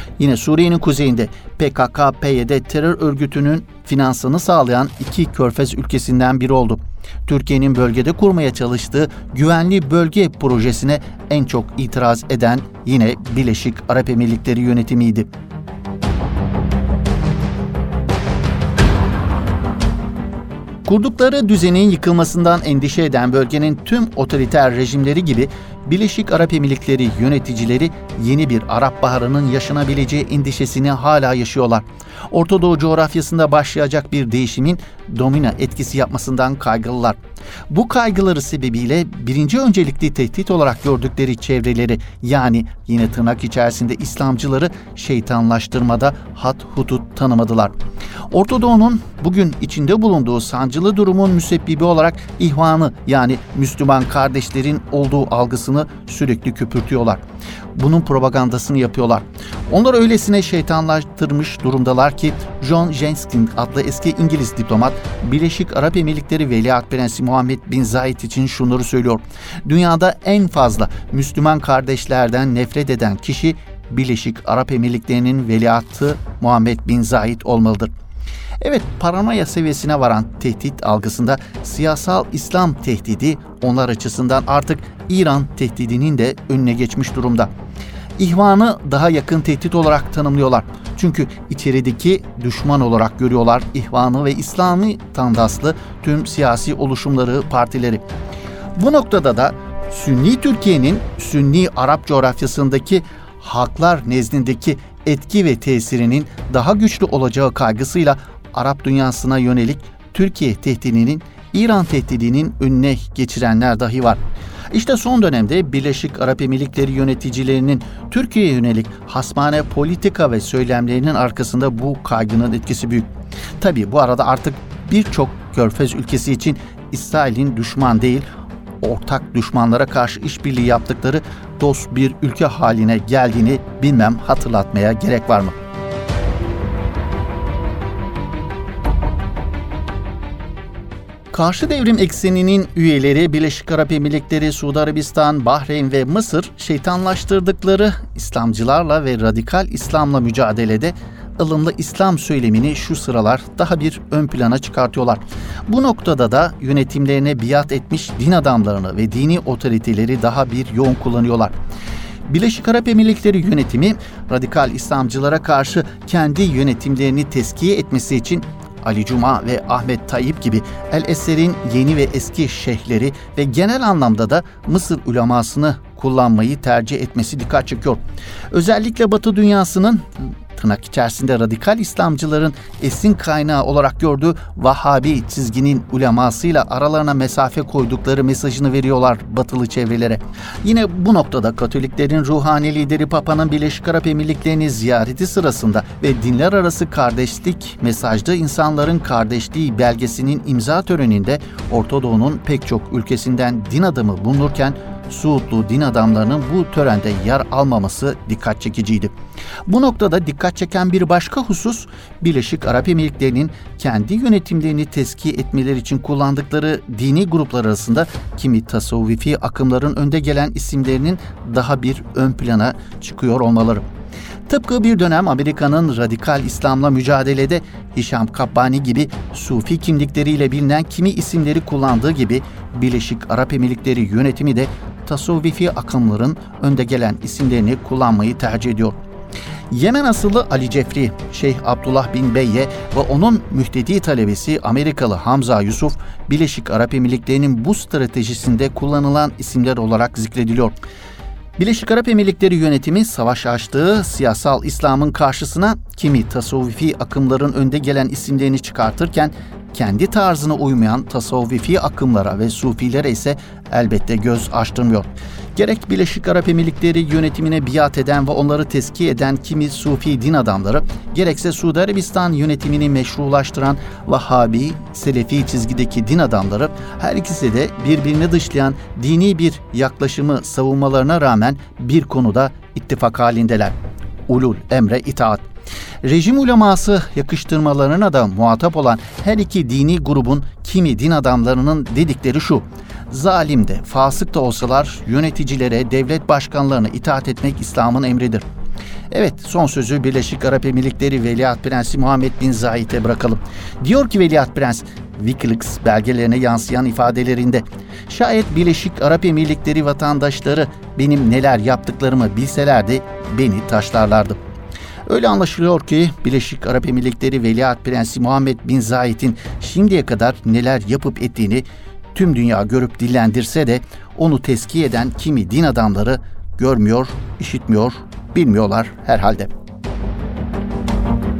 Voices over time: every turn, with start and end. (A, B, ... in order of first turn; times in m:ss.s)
0:00.2-0:15.3 A
0:20.8-0:37.2 A
0:37.7-0:47.7 A
0:48.3-0:57.2 A
0:57.7-1:17.9 A
1:18.6-1:27.5 A
1:28.2-1:38.0 A
1:38.8-2:08.2 A
2:08.8-2:15.5 A
2:21.3-2:41.5 A
2:42.3-2:58.0 A
2:58.5-3:29.1 A
3:29.6-3:43.8 A
3:44.5-3:59.0 A
3:59.7-4:10.8 A
4:11.6-4:43.8 A
4:44.3-4:45.4 A
4:46.0-4:58.4 A
4:59.1-5:14.4 A
5:15.0-5:29.5 A